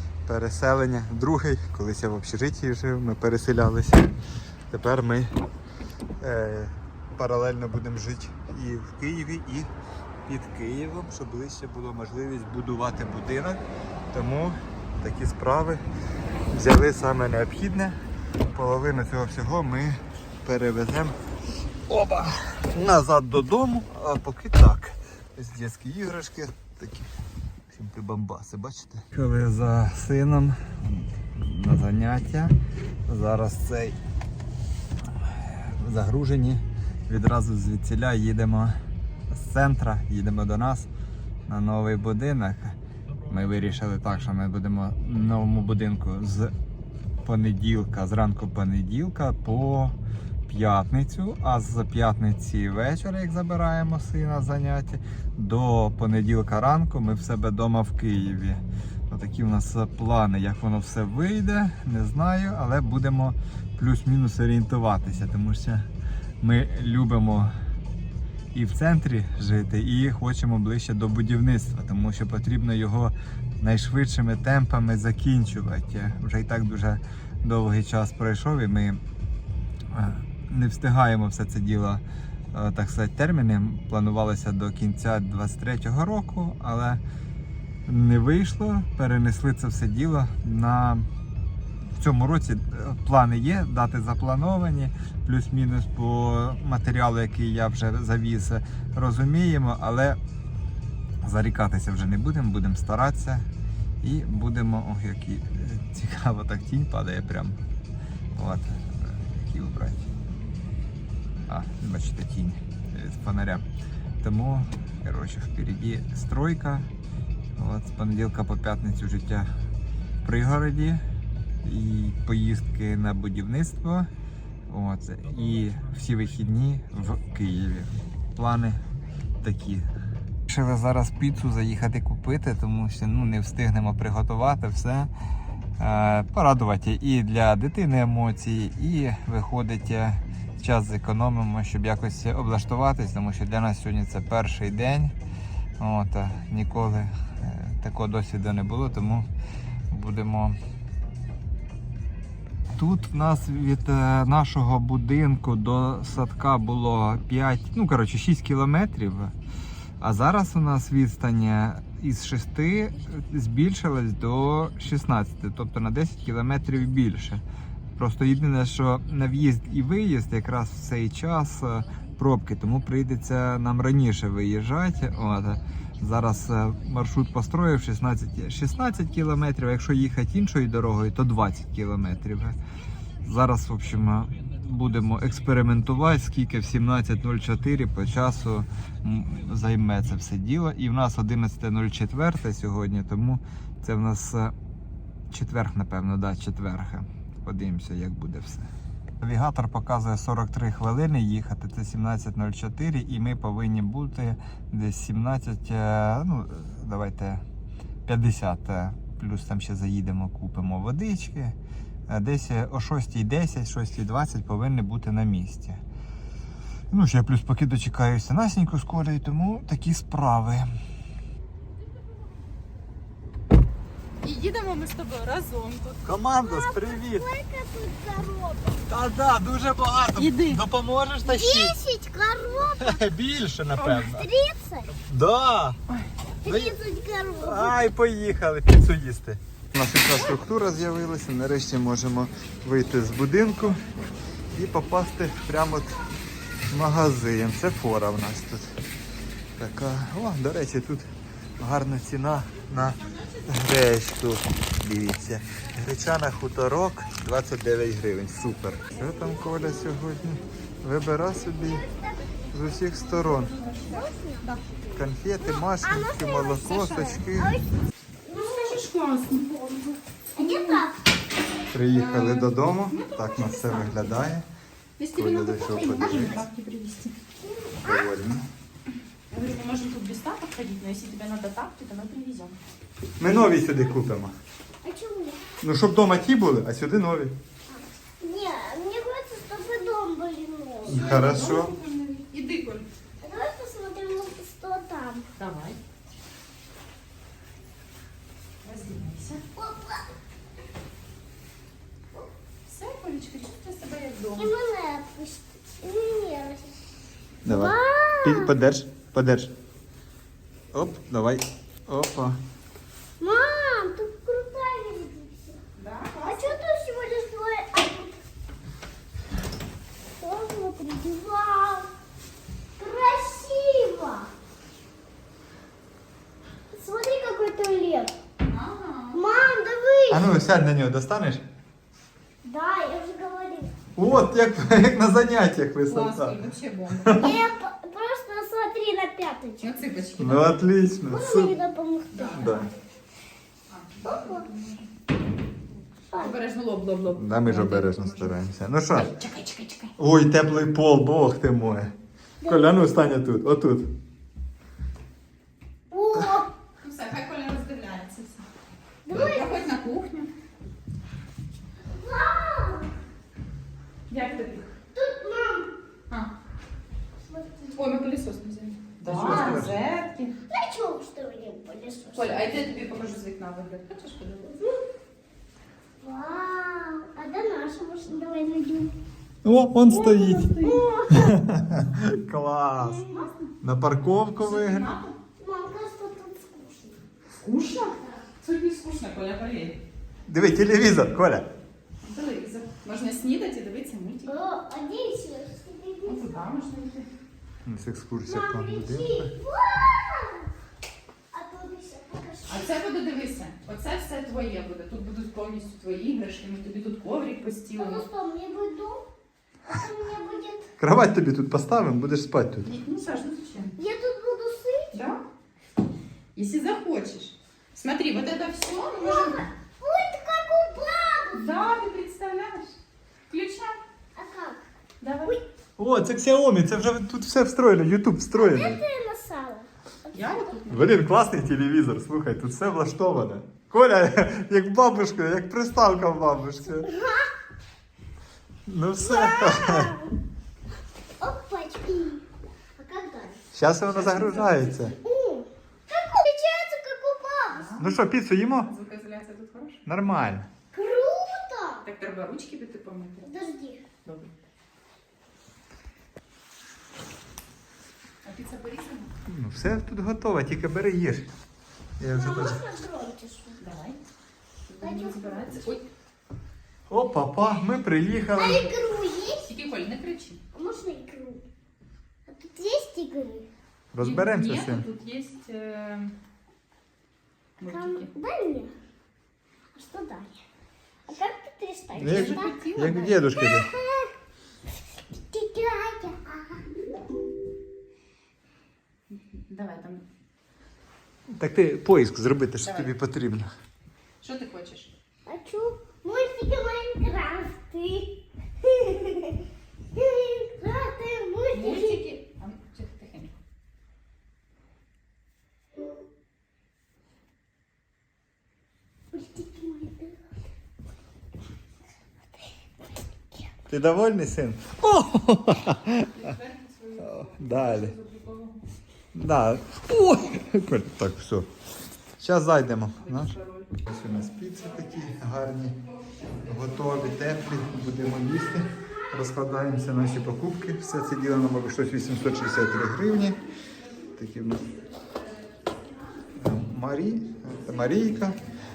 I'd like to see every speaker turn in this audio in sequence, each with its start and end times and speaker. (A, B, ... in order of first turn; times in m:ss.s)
0:00.2-0:04.1 A
0:04.7-0:05.3 A
0:06.2-0:09.7 A
0:10.3-0:15.8 A
0:16.5-0:21.2 A
0:21.9-0:27.1 A
0:27.7-0:32.5 A
0:33.0-0:34.0 A
0:35.1-0:38.8 A
0:39.3-0:40.9 A
0:41.5-0:42.8 A
0:43.3-0:46.5 A
0:47.2-0:50.0 A
0:50.5-1:05.9 A
1:06.4-1:07.5 A
1:08.5-1:19.0 A
1:19.9-1:27.0 A
1:27.8-1:31.1 A
1:32.0-1:40.2 A
1:41.2-1:43.5 A
1:44.0-1:47.6 A
1:48.3-1:50.1 A
1:51.5-1:53.7 A
1:54.2-1:56.9 A
1:57.6-1:59.5 A
2:00.2-2:01.0 A
2:01.6-2:04.1 A
2:04.7-2:08.8 A
2:09.4-2:09.9 A
2:10.5-2:15.1 A
2:15.8-2:25.2 A
2:25.8-2:29.3 A
2:29.9-2:30.6 A
2:32.8-2:39.3 A
2:40.0-2:47.4 A
2:48.0-3:02.6 A
3:03.2-3:14.5 A
3:15.3-3:18.7 A
3:19.2-3:27.4 A
3:28.0-3:31.6 A
3:32.1-3:35.8 A
3:36.9-3:40.7 A
3:44.2-3:46.0 B
3:46.0-3:47.2 A
3:46.4-3:48.8 C
3:48.9-3:51.7 A
3:50.2-3:50.6 B
3:51.2-3:53.0 C
3:52.7-3:54.3 A
3:53.8-3:54.9 C
3:55.0-3:55.8 A
3:56.4-3:57.8 C
3:56.4-3:56.8 A
3:57.4-4:04.0 A
4:04.5-4:06.0 A
4:06.7-4:08.8 A
4:09.6-4:21.8 A
4:21.6-4:22.4 C
4:22.5-4:23.5 A
4:23.2-4:24.6 B
4:23.9-4:24.6 C
4:24.9-4:27.6 A
4:25.4-4:27.7 C
4:28.2-4:28.8 C
4:28.3-4:30.9 B
4:30.4-4:31.0 C
4:31.7-4:34.4 A
4:31.9-4:34.2 B
4:35.0-4:37.2 B
4:35.2-4:36.4 A
4:37.4-4:38.1 C
4:37.8-4:38.5 A
4:39.3-4:42.6 B
4:43.2-4:44.3 A
4:44.8-4:45.4 C
4:45.6-4:47.4 A
4:47.7-4:51.1 C
4:50.8-4:51.7 A
4:50.9-4:52.9 B
4:53.2-4:55.3 C
4:55.4-4:55.8 B
4:58.6-4:59.4 B
4:59.6-5:00.1 C
5:02.6-5:04.5 B
5:04.3-5:06.9 C
5:07.4-5:09.5 A
5:07.4-5:08.5 C
5:10.7-5:12.4 A
5:13.2-5:15.6 C
5:15.7-5:16.6 B
5:16.2-5:18.2 C
5:20.2-5:21.9 C
5:22.8-5:24.3 C
5:26.7-5:28.1 C
5:28.5-5:29.2 B
5:29.1-5:30.4 C
5:30.1-5:31.4 A
5:32.4-5:33.7 C
5:34.0-5:36.4 A
5:35.9-5:37.4 B
5:37.0-5:37.3 A
5:37.1-5:39.7 C
5:39.6-5:40.6 B
5:40.2-5:41.6 A
5:41.1-5:42.6 C
5:42.1-5:42.6 B
5:42.3-5:42.7 A
5:43.7-5:44.9 B
5:44.0-5:44.4 C
5:46.1-5:46.4 C
5:46.1-5:48.3 B
5:47.1-5:49.1 A
5:48.9-5:49.9 B
5:50.0-5:51.9 A
5:52.4-5:52.8 C
5:52.4-5:54.0 A
5:55.9-5:56.5 C
5:56.8-5:58.5 B
5:59.0-5:59.7 C
5:59.1-6:00.3 B
6:01.9-6:02.9 C
6:04.1-6:04.7 B
6:04.9-6:05.7 C
6:07.2-6:07.9 C
6:07.7-6:10.3 B
6:09.0-6:09.8 A
6:10.5-6:12.6 C
6:12.1-6:14.6 B
6:16.0-6:18.9 C
6:19.4-6:20.5 A
6:19.9-6:20.8 B
6:20.6-6:21.4 C
6:21.1-6:23.0 A
6:22.8-6:23.3 C
6:23.6-6:24.9 A
6:24.4-6:25.2 B
6:25.4-6:27.0 C
6:27.3-6:29.8 B
6:30.3-6:31.5 A
6:32.0-6:34.4 B
6:34.2-6:36.4 C
6:36.0-6:37.1 B
6:37.6-6:39.3 A
6:38.3-6:40.5 C
6:41.3-6:42.7 C
6:42.5-6:48.0 B
6:47.8-6:49.1 C
6:49.7-6:50.7 C
6:50.8-6:52.7 A
6:52.6-6:53.8 B
6:53.8-6:55.0 C
6:54.9-6:55.2 B
6:56.3-6:59.4 B
6:58.8-7:01.6 C
7:01.3-7:02.8 B
7:03.3-7:03.8 B
7:04.1-7:04.6 C
7:05.0-7:05.4 B
7:05.8-7:08.8 A
7:08.3-7:10.1 C
7:10.1-7:11.0 B
7:10.7-7:16.9 A
7:16.7-7:17.3 C
7:18.7-7:20.0 A
7:19.0-7:20.1 C
7:21.2-7:22.2 C
7:22.8-7:23.4 C
7:23.5-7:24.9 A
7:23.9-7:24.6 B
7:24.9-7:27.7 C
7:27.5-7:28.0 B
7:27.8-7:28.7 A
7:28.6-7:29.8 B
7:29.8-7:30.5 A
7:30.7-7:31.8 C
7:31.8-7:33.4 B
7:33.2-7:33.8 C
7:34.0-7:34.3 B
7:38.2-7:39.1 B
7:39.2-7:41.3 A
7:42.0-7:42.6 A
7:42.1-7:43.6 C
7:43.6-7:44.0 B
7:44.6-7:45.8 B
7:44.8-7:45.7 C
7:46.9-7:48.7 A
7:48.3-7:49.5 C
7:49.4-7:50.4 B
7:50.5-7:51.4 C
7:52.2-7:53.5 C
7:53.9-7:54.8 A
7:54.0-7:56.1 B
7:57.6-7:58.1 B
7:57.6-7:58.7 C
7:59.7-8:00.4 C
8:01.0-8:02.6 C
8:01.9-8:03.7 A
8:02.0-8:03.2 B
8:03.3-8:04.1 C
8:05.0-8:06.7 C
8:09.1-8:10.0 B
8:11.3-8:13.5 A
8:12.6-8:12.9 B
8:14.2-8:14.9 B
8:15.2-8:22.0 C
8:21.5-8:23.3 B
8:29.1-8:30.2 C
8:33.7-8:36.3 A
8:36.0-8:38.6 B
8:37.0-8:38.0 A
8:39.1-8:41.5 A
8:42.2-8:45.8 A
8:43.0-8:43.7 B
8:46.4-8:53.4 A
8:54.1-8:54.7 A
8:56.4-8:58.4 A